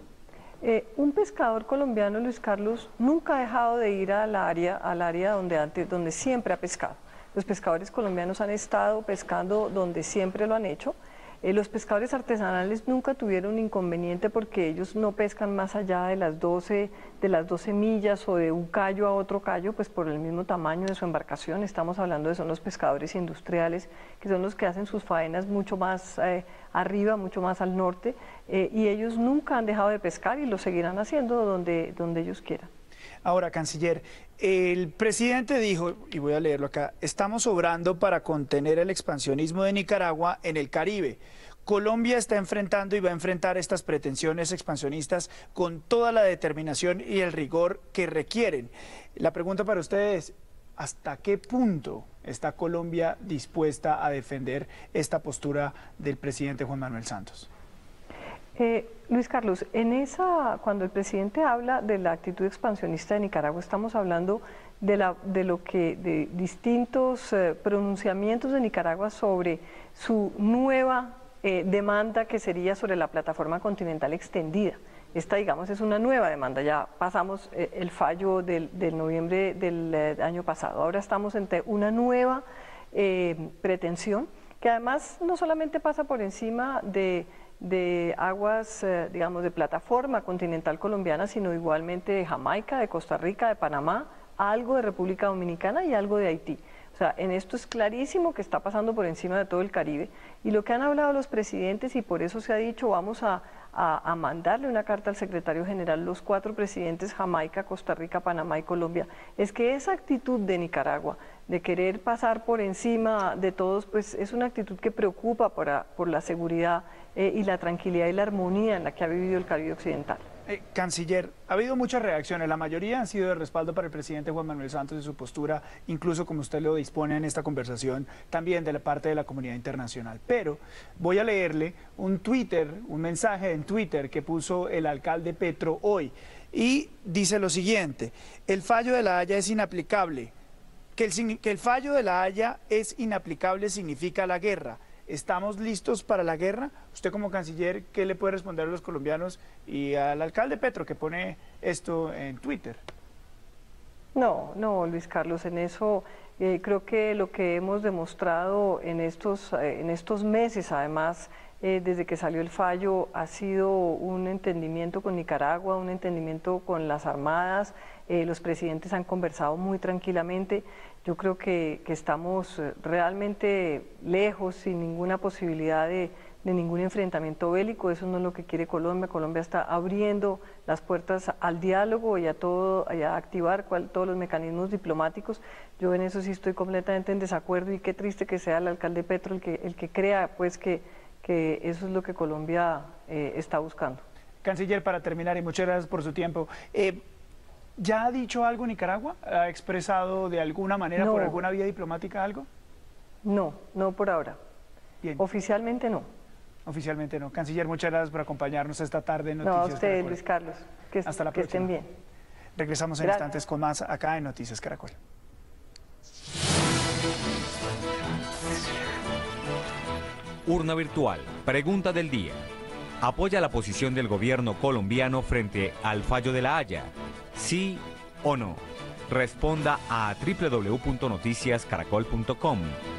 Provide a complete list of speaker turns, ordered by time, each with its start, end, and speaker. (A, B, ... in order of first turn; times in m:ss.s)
0:00.6-0:32.7 A
0:33.2-0:57.5 B
0:58.6-2:00.2 A
2:00.5-2:20.3 B
2:21.0-2:32.8 B
2:34.2-3:14.0 A
3:14.4-3:17.0 B
3:17.8-3:22.5 B
3:21.0-3:21.4 A
3:23.2-3:24.4 A
3:25.2-3:26.1 A
3:26.7-3:30.2 B
3:29.4-3:31.9 A
3:31.1-3:31.8 B
3:32.6-3:35.0 B
3:33.0-3:33.4 A
3:40.5-3:42.4 C
3:43.0-3:52.8 C